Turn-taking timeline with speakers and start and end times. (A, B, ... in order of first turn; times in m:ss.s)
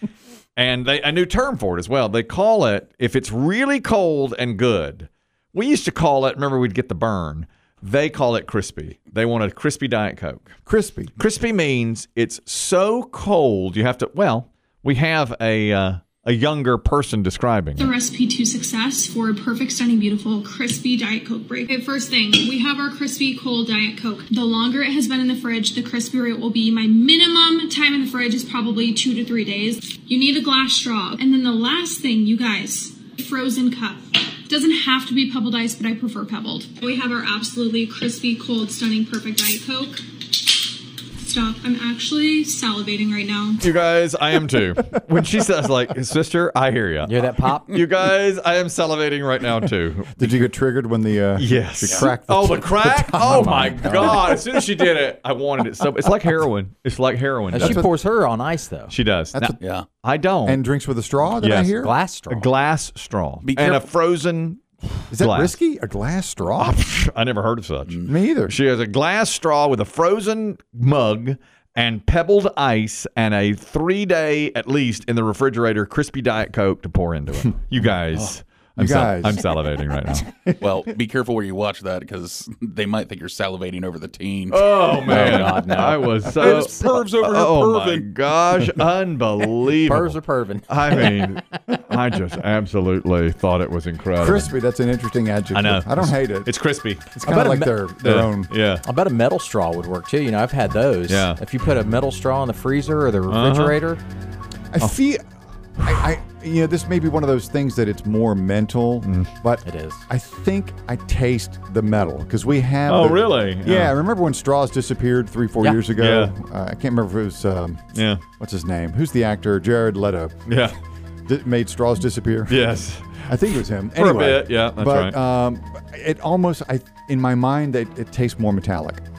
0:00.6-0:10.5 A
0:10.7-0:11.1 B
0:11.2-0:17.9 A
0:17.8-0:43.7 C
0:43.6-0:47.2 A
0:47.0-0:47.8 D
0:47.7-0:50.5 A
0:50.2-0:54.6 B
0:51.4-0:57.9 A
0:53.2-0:54.3 D
0:57.5-0:58.9 D
0:57.6-0:57.9 B
0:58.9-1:00.6 A
0:59.3-0:59.6 B
0:59.6-0:59.9 E
1:00.4-1:01.9 B
1:01.4-1:01.8 A
1:01.7-1:02.5 D
1:02.3-1:05.6 A
1:03.4-1:03.9 E
1:05.1-1:06.8 B
1:06.6-1:20.3 A
1:08.0-1:08.6 B
1:17.9-1:20.8 B
1:20.6-1:25.2 E
1:24.5-1:34.5 A
1:25.0-1:26.3 D
1:26.3-1:28.1 E
1:29.7-1:31.6 D
1:34.2-1:36.5 B
1:35.5-1:37.2 A
1:37.2-1:38.5 B
1:37.3-1:37.7 D
1:38.0-1:38.8 A
1:38.8-1:44.0 D
1:41.1-1:41.4 A
1:43.3-1:43.8 A
1:44.7-1:45.2 B
1:45.8-2:00.4 B
1:49.0-1:49.3 A
1:49.6-1:50.0 D
1:52.9-1:53.9 A
1:56.0-1:56.3 A
1:57.9-1:58.2 A
2:00.5-2:00.8 A
2:01.3-2:09.0 B
2:02.5-2:03.3 A
2:04.0-2:05.2 A